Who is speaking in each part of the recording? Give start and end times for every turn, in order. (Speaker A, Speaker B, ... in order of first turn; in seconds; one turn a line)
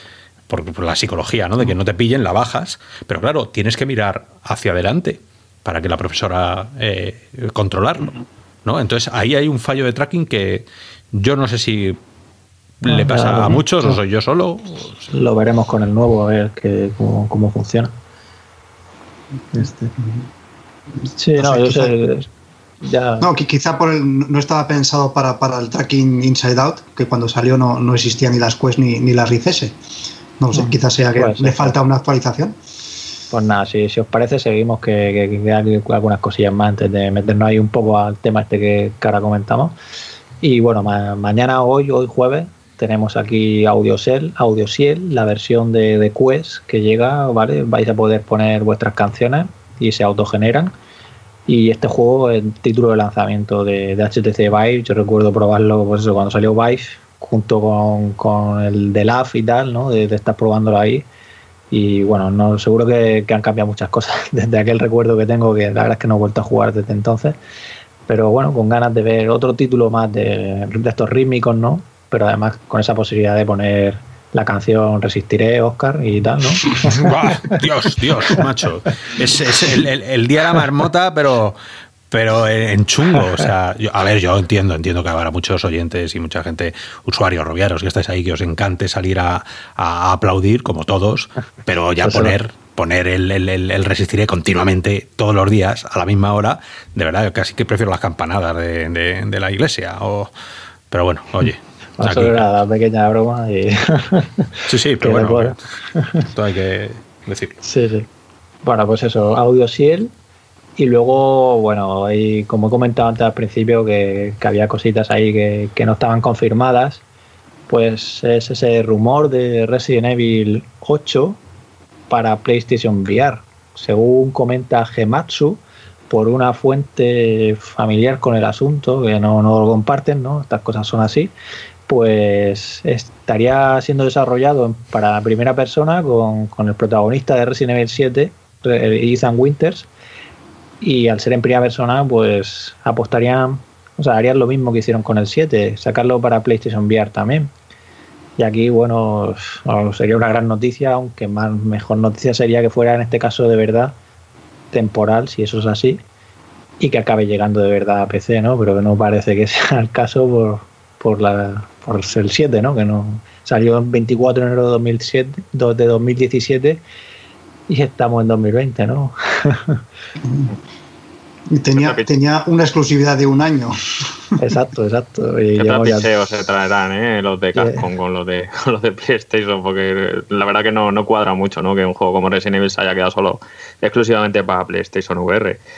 Speaker A: 0.5-12.0
Speaker A: 12.8-15.1
Speaker B: 12.9-14.0
Speaker B: 15.1-17.9
Speaker B: 19.5-19.9
Speaker B: 21.1-22.3
Speaker C: 21.4-21.9
Speaker B: 22.8-23.3
Speaker C: 23.2-29.8
Speaker C: 30.4-32.5
Speaker B: 30.5-31.7
Speaker B: 33.3-39.7
Speaker B: 40.4-50.7
Speaker B: 51.5-61.0
Speaker B: 61.7-67.3
Speaker B: 68.1-77.6
Speaker A: 76.8-81.6
Speaker A: 82.1-100.3
Speaker B: 92.0-92.3
Speaker A: 100.9-102.5
Speaker B: 102.0-106.2
Speaker A: 104.7-105.6
Speaker A: 106.2-107.6
Speaker B: 107.6-108.1
Speaker B: 108.6-110.1
Speaker B: 110.8-117.0
Speaker B: 117.7-121.4
Speaker B: 122.1-131.3
Speaker B: 131.9-139.9
Speaker B: 140.8-147.5
Speaker B: 148.4-153.9
Speaker B: 154.7-156.0
Speaker B: 156.8-166.8
Speaker B: 167.7-169.8
Speaker C: 170.2-170.5
Speaker C: 171.5-174.1
Speaker D: 171.7-172.1
Speaker B: 174.4-176.1
Speaker D: 175.6-185.6
Speaker B: 177.5-177.8